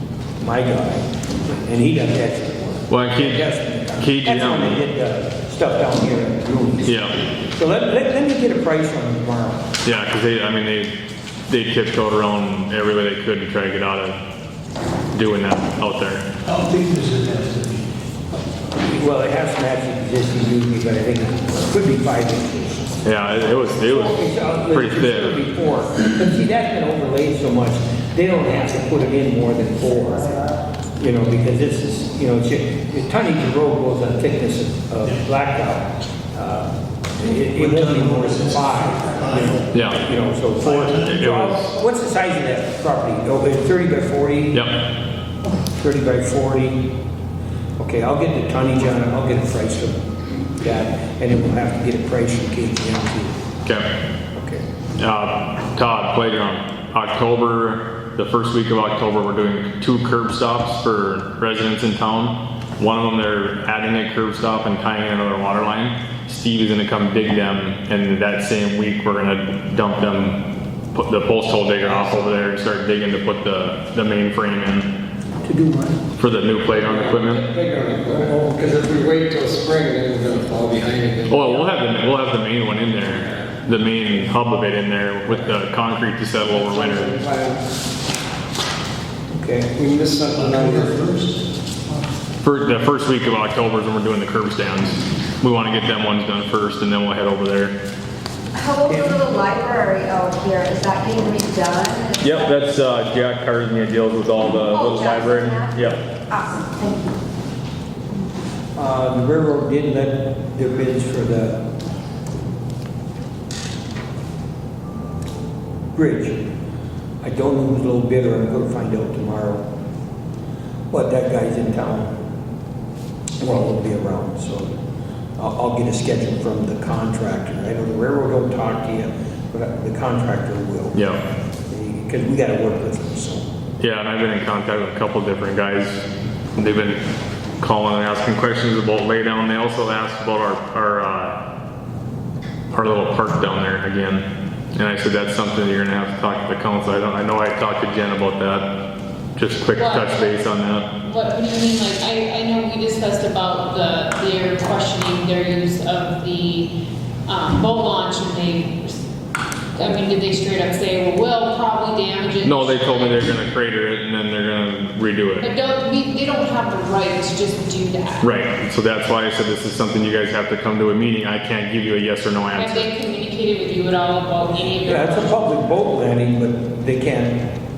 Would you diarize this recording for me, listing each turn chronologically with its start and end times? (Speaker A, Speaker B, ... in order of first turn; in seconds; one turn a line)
Speaker A: 0.4-9.6
Speaker B: 2.9-3.5
Speaker B: 4.0-4.8
Speaker B: 6.9-7.1
Speaker B: 9.8-10.9
Speaker B: 11.5-14.2
Speaker B: 15.1-16.3
Speaker C: 16.5-17.8
Speaker A: 18.8-23.1
Speaker B: 23.0-24.2
Speaker A: 23.8-30.4
Speaker B: 24.7-25.4
Speaker A: 31.0-44.7
Speaker C: 37.5-39.5
Speaker B: 39.7-40.0
Speaker C: 40.6-41.2
Speaker B: 41.0-41.7
Speaker B: 44.5-44.8
Speaker A: 45.8-46.9
Speaker A: 47.8-50.0
Speaker A: 50.6-53.4
Speaker A: 54.4-54.6
Speaker B: 55.0-74.9
Speaker A: 75.4-76.0
Speaker B: 76.2-77.5
Speaker D: 76.8-81.7
Speaker B: 81.3-87.1
Speaker D: 86.4-87.6
Speaker A: 89.3-89.8
Speaker D: 89.7-91.4
Speaker A: 90.6-90.9
Speaker C: 90.7-91.0
Speaker B: 92.4-97.8
Speaker E: 98.5-102.6
Speaker A: 98.8-99.2
Speaker B: 102.2-106.0
Speaker E: 104.7-107.2
Speaker A: 108.8-111.6
Speaker A: 115.9-116.4
Speaker A: 117.2-119.6
Speaker A: 120.9-122.1
Speaker A: 123.4-124.7
Speaker A: 125.4-131.0
Speaker B: 130.9-131.2
Speaker A: 131.7-133.4
Speaker B: 133.8-136.0
Speaker B: 136.6-137.0
Speaker B: 137.6-141.4
Speaker B: 142.7-148.8
Speaker B: 149.4-150.9
Speaker F: 149.8-150.2
Speaker F: 151.0-156.7
Speaker F: 157.3-159.0
Speaker F: 159.8-163.3
Speaker B: 162.4-165.5
Speaker F: 165.4-168.3
Speaker B: 168.2-172.9
Speaker F: 172.6-175.4
Speaker A: 174.8-177.4